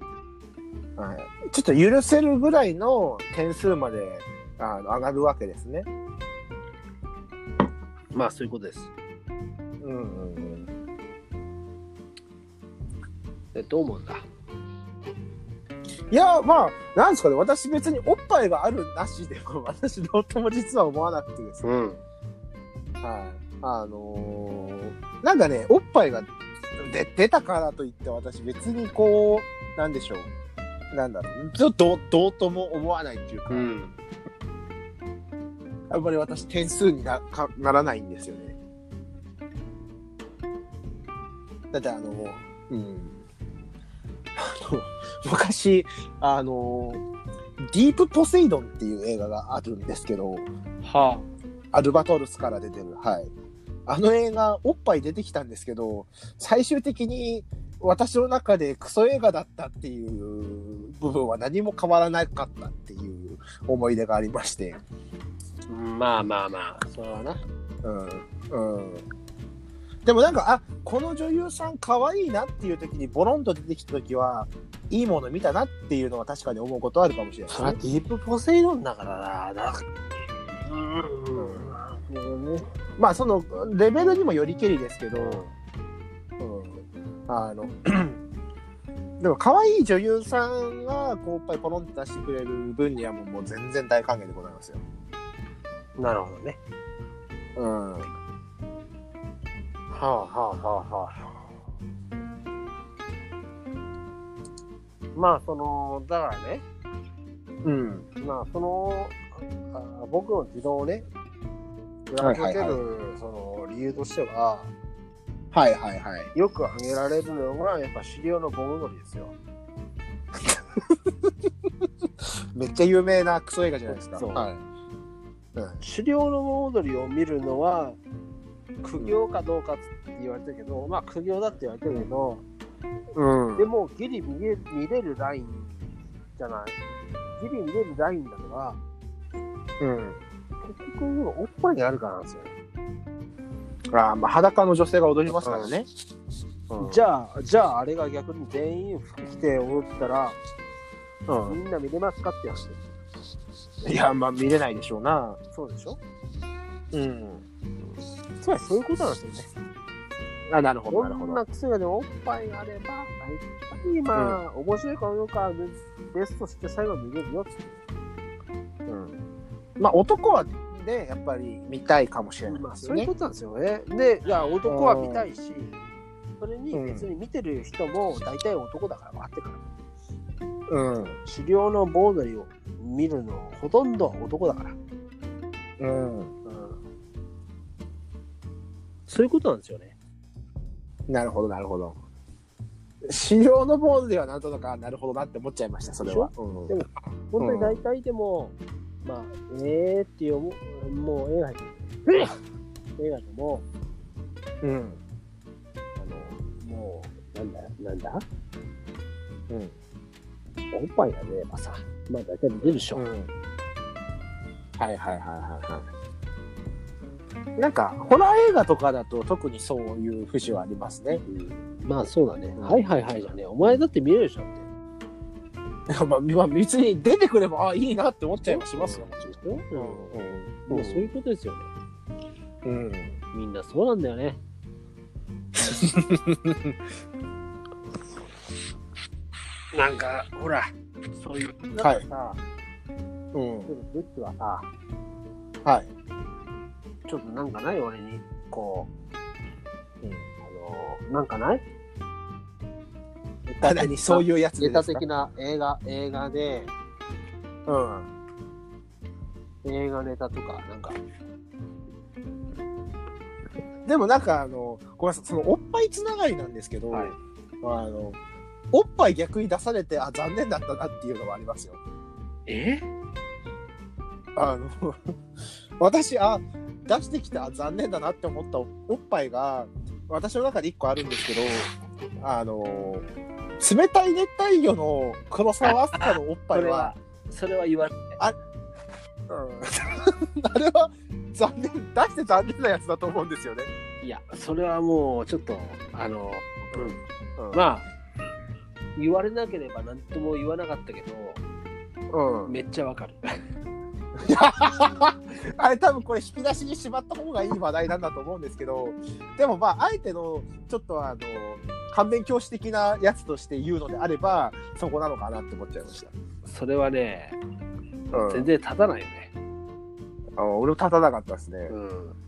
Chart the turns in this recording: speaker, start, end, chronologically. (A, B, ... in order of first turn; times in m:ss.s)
0:01.0-0:05.9 A
0:08.1-0:08.9 B
0:09.8-0:10.7 A
0:13.5-0:14.2 B
0:16.1-0:21.6 A
0:21.6-0:22.0 B
0:23.0-0:30.3 A
0:30.9-0:33.7 A
0:33.5-0:33.9 B
0:35.9-0:38.6 A
0:41.7-0:43.2 A
0:44.4-0:47.0 A
0:47.6-0:50.5 A
0:50.8-0:51.3 B
0:51.7-0:53.3 A
0:53.9-1:04.8 A
1:05.7-1:07.4 B
1:07.8-1:09.0 A
1:10.0-1:17.8 A
1:17.5-1:19.9 B
1:20.6-1:22.6 B
1:21.4-1:21.7 A
1:23.0-1:25.4 A
1:25.1-1:25.5 B
1:26.4-1:28.2 A
1:29.2-1:34.8 A
1:36.0-1:36.6 B
1:37.6-1:38.1 A
1:39.9-1:41.2 B
1:45.1-1:46.6 B
1:47.6-1:48.1 A
1:48.2-1:49.2 B
1:49.7-1:51.1 B
1:52.1-1:54.7 B
1:52.2-1:52.8 A
1:55.5-1:56.3 A
1:56.3-1:59.3 B
2:02.5-2:04.6 A
2:03.9-2:04.5 B
2:05.5-2:05.8 A
2:05.8-2:08.0 B
2:08.8-2:12.4 B
2:13.1-2:13.7 A
2:13.6-2:16.8 B
2:17.4-2:18.8 B
2:19.8-2:20.2 A
2:20.6-2:22.5 B
2:23.9-2:25.9 A
2:25.3-2:25.7 B
2:26.7-2:27.0 A
2:26.8-2:30.4 B
2:31.3-2:31.6 A
2:31.4-2:32.8 B
2:33.8-2:35.4 A
2:35.5-2:36.0 B
2:36.9-2:37.4 A
2:38.4-2:39.5 B
2:40.5-2:41.4 A
2:40.9-2:47.7 B
2:48.9-2:49.2 A
2:49.8-2:53.1 A
2:52.5-2:55.7 B
2:54.6-2:55.3 A
2:56.4-2:59.6 B
2:56.7-2:57.1 A
3:00.7-3:01.2 A
3:01.2-3:04.8 B
3:05.8-3:06.3 A
3:06.4-3:06.8 B
3:09.1-3:10.0 B
3:11.1-3:12.0 A
3:13.0-3:16.7 A
3:16.0-3:22.3 B
3:17.4-3:17.8 A
3:23.0-3:23.6 B
3:24.6-3:25.0 A
3:26.0-3:28.2 B
3:30.7-3:33.0 B
3:32.9-3:33.3 A
3:34.8-3:35.9 A
3:37.6-3:41.2 A
3:41.2-3:44.6 B
3:42.6-3:42.8 A
3:45.9-3:51.1 A
3:48.4-3:51.7 B
3:52.6-3:53.2 A
3:53.3-3:54.4 B
3:55.6-3:56.8 A
3:59.7-4:02.4 B
4:03.3-4:03.7 A
4:03.7-4:04.7 B
4:05.6-4:05.9 A
4:07.1-4:08.9 B
4:10.4-4:11.6 B
4:13.5-4:16.7 B
4:13.6-4:15.0 A
4:17.6-4:18.1 A
4:19.6-4:21.0 B
4:23.8-4:28.2 A
4:26.9-4:27.2 B
4:28.7-4:31.8 A
4:32.5-4:32.8 B
4:34.4-4:35.0 A
4:35.8-4:41.7 A
4:42.2-4:43.0 A
4:43.6-4:46.9 A
4:45.6-4:48.2 B
4:49.3-4:53.7 A
4:54.0-4:57.0 B
4:56.7-4:57.6 A
4:57.5-4:57.9 B
4:59.0-5:01.4 B
5:02.1-5:02.6 A
5:02.4-5:03.2 B
5:04.2-5:16.1 A
5:16.4-5:17.4 B
5:18.1-5:18.5 A
5:18.1-5:19.3 B
5:20.4-5:21.7 A
5:21.7-5:22.2 B